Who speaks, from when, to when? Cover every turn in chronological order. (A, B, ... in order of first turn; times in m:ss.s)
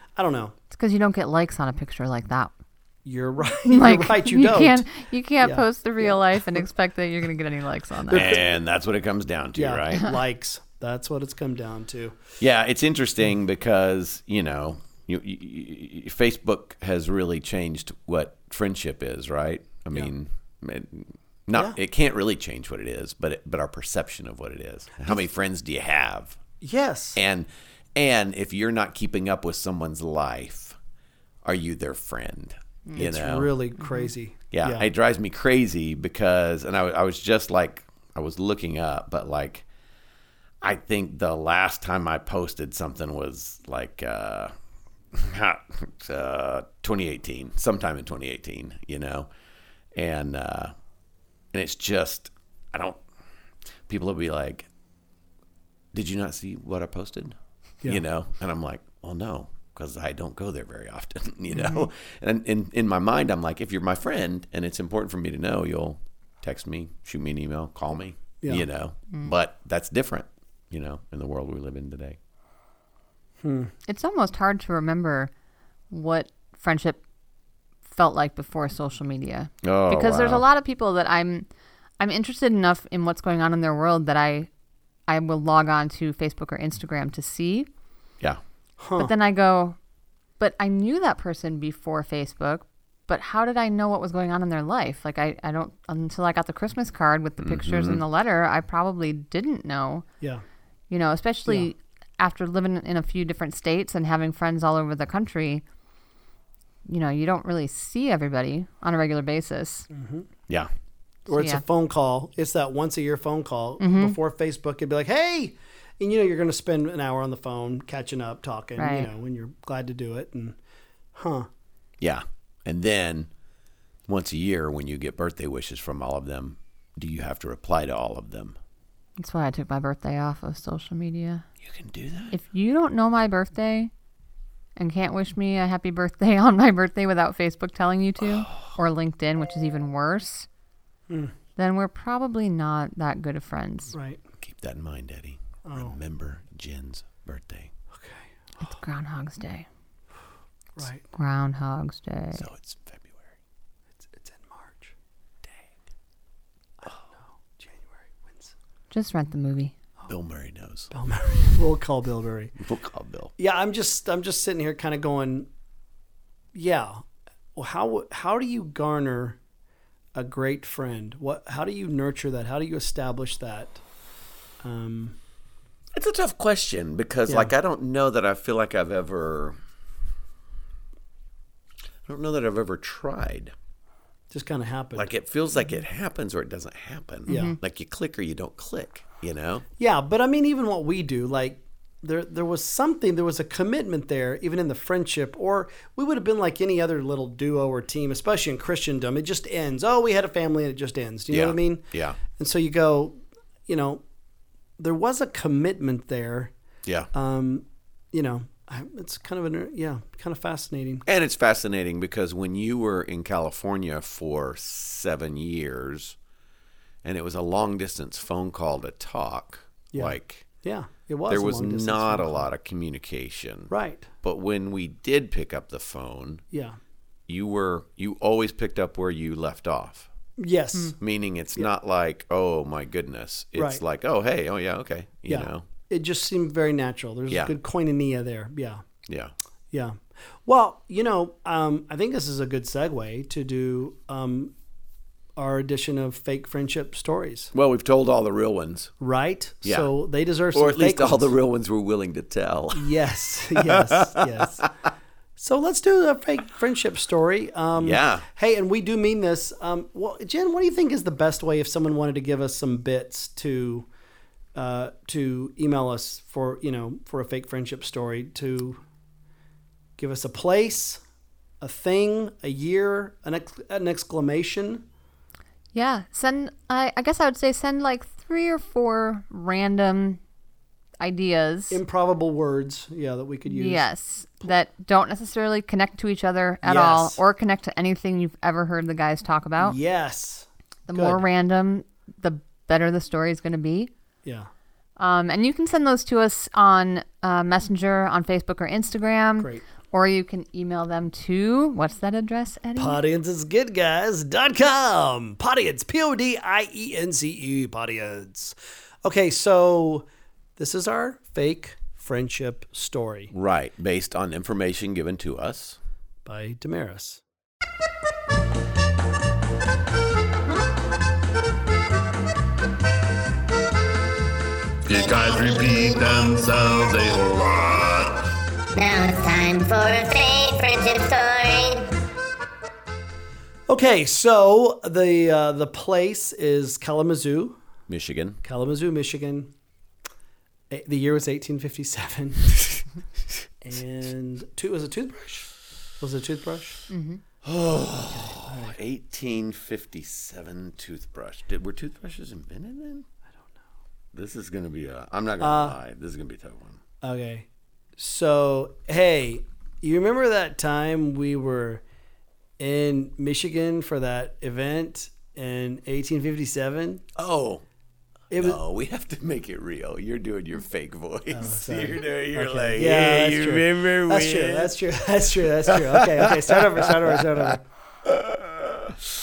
0:00.2-0:00.5 A
0:00.7-0:02.5 B
0:03.0-0:04.8 A
0:03.6-0:08.4 B
0:05.4-0:06.2 A
0:08.1-0:08.4 A
0:08.1-0:10.2 C
0:09.6-0:12.2 A
0:12.4-0:26.4 C
0:26.6-0:27.2 A
0:27.2-0:30.8 C
0:31.4-0:33.5 C
0:33.0-0:34.8 A
0:33.8-0:34.1 B
0:34.5-0:39.6 C
0:40.6-0:44.5 C
0:45.1-0:49.3 C
0:49.9-0:50.7 C
0:51.5-0:53.0 C
0:53.9-0:54.7 C
0:55.9-1:12.2 C
1:01.5-1:01.8 B
1:13.4-1:13.7 A
1:13.9-1:15.3 B
1:15.9-1:17.0 B
1:17.9-1:21.4 B
1:19.6-1:20.4 C
1:22.0-1:24.5 B
1:25.1-1:27.7 B
1:28.8-1:29.1 A
1:29.0-1:29.8 B
1:30.4-1:40.0 B
1:37.4-1:38.0 C
1:40.9-1:45.6 B
1:46.9-1:49.9 B
1:49.9-1:50.3 A
1:51.3-2:00.6 A
1:51.3-1:51.6 B
1:53.8-1:54.2 B
1:58.8-1:59.1 B
2:01.1-2:01.5 A
2:02.0-2:03.3 C
2:04.1-2:08.6 C
2:09.2-2:11.4 B
2:11.6-2:12.3 C
2:12.3-2:13.9 B
2:14.8-2:20.5 B
2:18.2-2:18.7 C
2:21.1-2:21.3 A
2:21.6-2:23.9 B
2:23.9-2:24.2 A
2:24.4-2:27.7 C
2:25.6-2:25.9 A
2:27.9-2:28.2 A
2:28.6-2:29.6 B
2:30.8-2:31.0 A
2:31.2-2:32.4 B
2:32.3-2:33.3 C
2:34.0-2:34.9 A
2:36.8-2:38.5 A
2:38.9-2:39.7 B
2:40.1-2:40.9 C
2:40.9-2:42.5 A
2:42.6-2:43.3 C
2:43.4-2:45.5 A
2:46.5-2:47.0 A
2:47.5-2:49.4 A
2:50.1-2:53.8 A
2:54.6-2:55.2 A
2:55.9-2:59.6 C
3:02.0-3:03.5 C
3:04.3-3:05.1 A
3:04.9-3:09.6 C
3:07.3-3:07.6 B
3:07.3-3:07.5 A
3:09.8-3:24.0 A
3:21.3-3:22.2 C
3:24.8-3:26.5 A
3:27.1-3:31.0 A
3:31.0-3:36.2 C
3:37.0-3:40.5 C
3:39.9-3:42.4 A
3:41.3-3:46.4 C
3:43.7-3:44.1 A
3:46.5-3:46.8 A
3:47.3-3:50.1 C
3:50.4-3:51.0 A
3:51.0-3:55.6 C
3:53.6-3:53.8 A
3:55.3-3:58.8 A
3:57.3-3:57.5 C
3:59.0-3:59.3 C
3:59.7-4:04.5 A
4:05.4-4:07.5 A
4:07.5-4:08.9 C
4:09.0-4:11.3 A
4:09.6-4:09.9 C
4:10.5-4:12.9 C
4:12.7-4:14.6 A
4:13.5-4:14.7 C
4:15.4-4:23.9 A
4:17.8-4:18.2 C
4:24.5-4:28.8 A
4:30.0-4:31.0 A
4:31.6-4:34.8 A
4:35.7-4:40.2 B
4:41.0-4:41.8 B
4:41.7-4:43.8 A
4:43.4-4:49.8 B
4:46.6-4:47.2 A
4:49.6-4:51.2 A
4:50.9-4:53.9 B
4:55.0-5:03.0 B
4:59.4-4:59.6 A
5:02.8-5:10.0 A
5:10.6-5:13.3 A
5:13.3-5:15.8 C
5:16.2-5:17.2 A
5:24.9-5:28.1 D
5:24.9-5:26.5 E
5:28.7-5:31.9 E
5:33.7-5:37.6 A
5:37.9-5:38.4 C
5:38.4-5:39.5 A
5:40.7-5:42.8 A
5:43.6-5:46.8 A
5:46.9-5:47.2 B
5:47.4-5:53.1 C
5:48.1-5:48.8 A
5:54.1-5:56.8 C
5:55.4-5:55.7 A
5:57.0-6:01.8 A
6:02.6-6:07.0 A
6:07.2-6:07.6 C
6:08.3-6:08.6 A
6:08.3-6:14.7 C
6:11.3-6:17.6 A
6:15.3-6:17.5 C
6:18.0-6:19.0 C